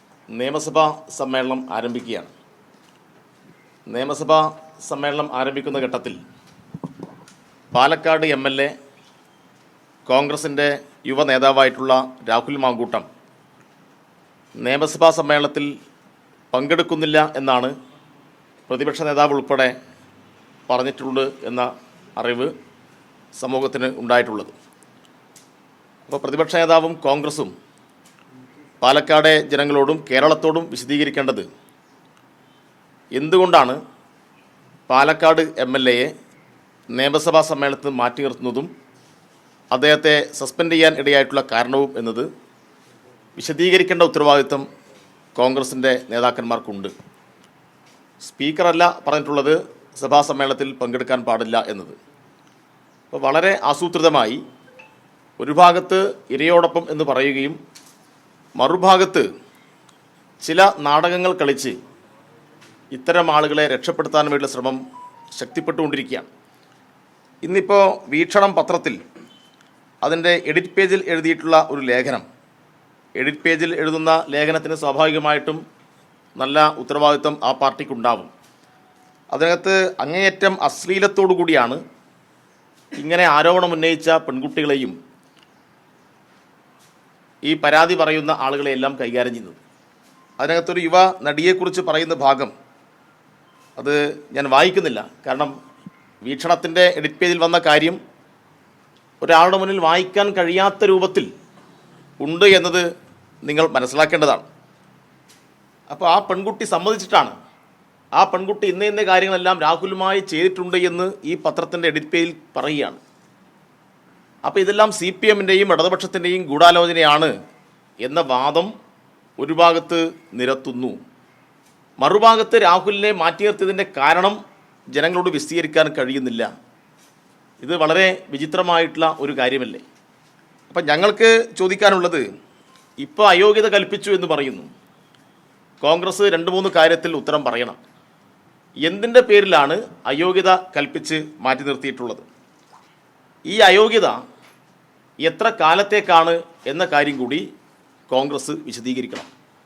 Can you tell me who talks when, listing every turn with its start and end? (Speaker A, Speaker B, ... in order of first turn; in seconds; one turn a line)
Speaker A: 0.3-2.3
Speaker A: 3.9-6.2
Speaker A: 7.7-8.7
Speaker A: 10.1-13.1
Speaker A: 14.6-15.7
Speaker A: 16.5-17.7
Speaker A: 18.7-19.7
Speaker A: 20.7-22.5
Speaker A: 23.4-24.5
Speaker A: 26.1-27.5
Speaker A: 28.8-31.5
Speaker A: 33.1-33.8
Speaker A: 34.9-36.1
Speaker A: 36.9-38.7
Speaker A: 39.7-42.3
Speaker A: 43.4-44.6
Speaker A: 45.4-46.9
Speaker A: 48.2-52.0
Speaker A: 53.1-54.4
Speaker A: 55.4-57.6
Speaker A: 58.5-59.3
Speaker A: 60.4-61.8
Speaker A: 62.9-64.8
Speaker A: 65.3-66.3
Speaker A: 67.4-69.0
Speaker A: 70.0-72.2
Speaker A: 73.2-75.6
Speaker A: 76.4-78.3
Speaker A: 79.3-81.8
Speaker A: 83.0-85.0
Speaker A: 87.4-89.6
Speaker A: 90.4-92.5
Speaker A: 93.8-95.5
Speaker A: 96.2-98.0
Speaker A: 99.2-101.3
Speaker A: 102.2-102.9
Speaker A: 103.4-104.4
Speaker A: 105.9-107.3
Speaker A: 108.1-113.0
Speaker A: 114.4-117.3
Speaker A: 118.0-118.7
Speaker A: 119.4-121.0
Speaker A: 122.0-124.4
Speaker A: 124.9-126.5
Speaker A: 127.6-129.8
Speaker A: 130.7-132.2
Speaker A: 133.0-134.7
Speaker A: 135.8-137.8
Speaker A: 138.8-142.2
Speaker A: 143.5-144.2
Speaker A: 145.2-147.5
Speaker A: 148.1-149.3